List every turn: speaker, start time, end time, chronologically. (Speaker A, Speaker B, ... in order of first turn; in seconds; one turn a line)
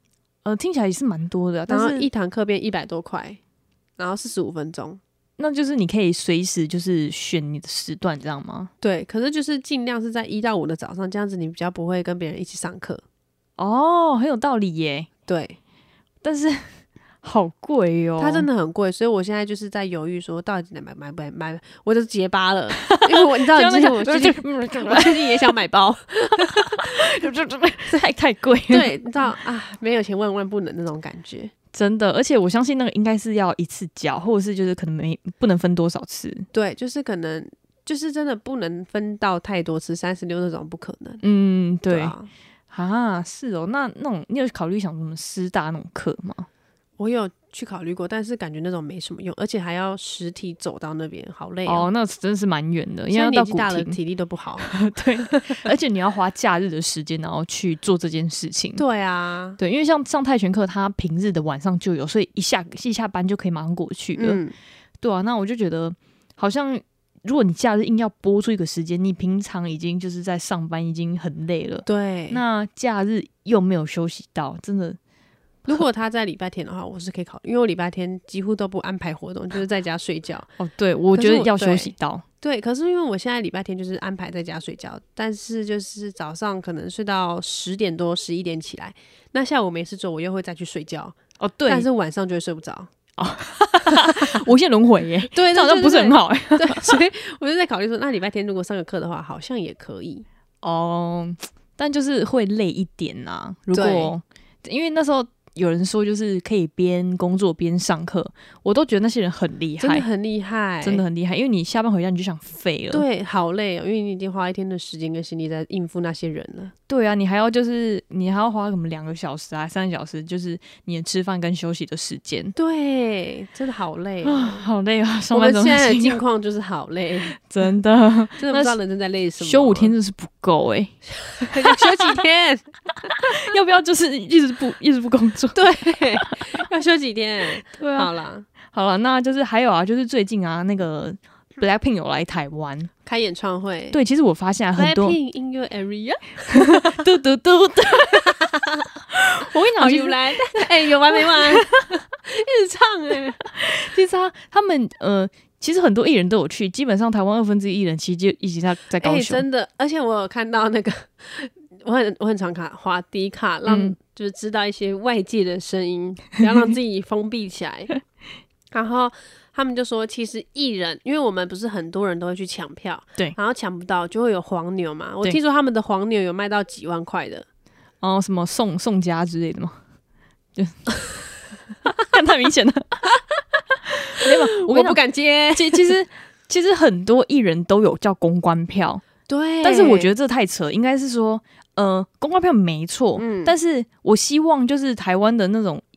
Speaker A: 0.5-2.1
Speaker B: 1.7-3.4
Speaker B: 4.0-5.0
Speaker A: 5.4-8.7
Speaker B: 8.8-13.0
Speaker A: 13.6-15.1
Speaker B: 15.3-15.6
Speaker A: 16.2-16.6
Speaker A: 17.2-18.5
Speaker B: 18.2-26.8
Speaker A: 22.8-25.5
Speaker A: 26.7-28.9
Speaker B: 28.7-31.5
Speaker A: 31.7-36.5
Speaker B: 36.5-41.2
Speaker A: 41.2-42.1
Speaker B: 41.9-42.3
Speaker A: 42.7-46.5
Speaker B: 47.0-51.9
Speaker A: 51.7-54.0
Speaker B: 53.1-54.8
Speaker A: 54.6-58.8
Speaker B: 55.3-55.6
Speaker B: 58.8-59.6
Speaker A: 59.6-64.4
Speaker B: 64.2-64.5
Speaker A: 65.0-75.0
Speaker B: 71.8-72.4
Speaker B: 75.7-80.5
Speaker A: 80.6-82.2
Speaker B: 81.2-91.2
Speaker A: 91.4-91.9
Speaker B: 91.7-92.9
Speaker A: 93.2-97.0
Speaker B: 93.9-94.2
Speaker B: 95.3-100.2
Speaker A: 100.6-110.1
Speaker B: 103.7-104.1
Speaker B: 109.8-111.0
Speaker A: 110.8-113.0
Speaker B: 112.9-116.7
Speaker A: 116.9-122.5
Speaker B: 122.6-124.7
Speaker A: 124.2-126.2
Speaker B: 125.3-127.4
Speaker A: 127.4-128.8
Speaker B: 128.4-129.9
Speaker A: 129.4-131.0
Speaker B: 131.4-133.4
Speaker A: 131.5-132.0
Speaker A: 133.4-135.6
Speaker B: 135.6-138.5
Speaker A: 137.6-138.1
Speaker A: 138.7-142.9
Speaker B: 143.1-144.0
Speaker A: 143.9-145.2
Speaker B: 144.8-147.1
Speaker A: 146.5-148.2
Speaker B: 148.1-148.8
Speaker A: 149.1-151.8
Speaker B: 149.8-153.4
Speaker A: 153.5-159.4
Speaker B: 159.0-167.9
Speaker A: 163.7-163.9
Speaker B: 168.7-177.4
Speaker A: 178.0-179.8
Speaker A: 180.6-180.9
Speaker A: 181.8-183.0
Speaker A: 184.1-185.0
Speaker B: 184.2-185.9
Speaker A: 185.5-189.1
Speaker B: 189.3-190.1
Speaker A: 189.6-195.8
Speaker B: 193.2-193.6